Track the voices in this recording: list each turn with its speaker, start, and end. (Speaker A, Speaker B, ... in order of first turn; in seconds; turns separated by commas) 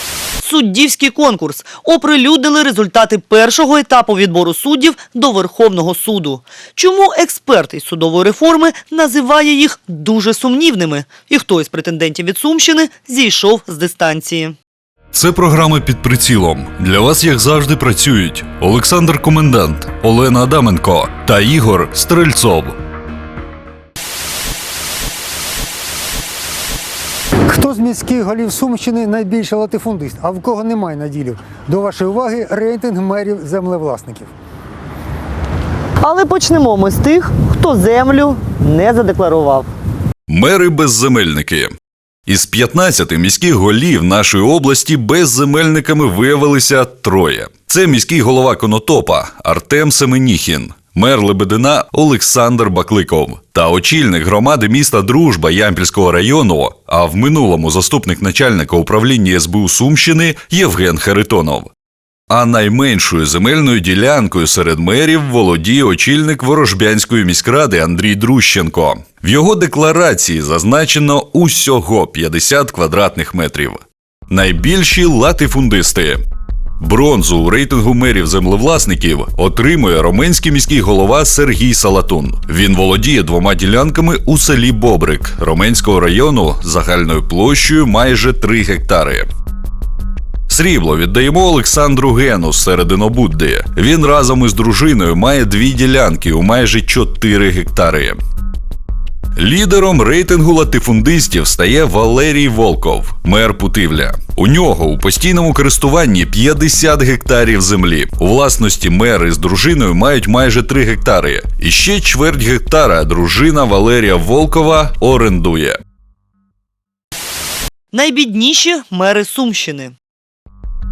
Speaker A: 0.4-14.6, Speaker B: 15.1-22.7, Speaker C: 27.5-34.3, Speaker A: 36.0-39.7, Speaker B: 40.3-41.7, Speaker B: 42.3-61.7, Speaker B: 62.3-73.8, Speaker B: 74.3-76.2, Speaker B: 76.8-89.3, Speaker B: 90.5-98.2, Speaker B: 99.4-115.8, Speaker A: 117.9-119.9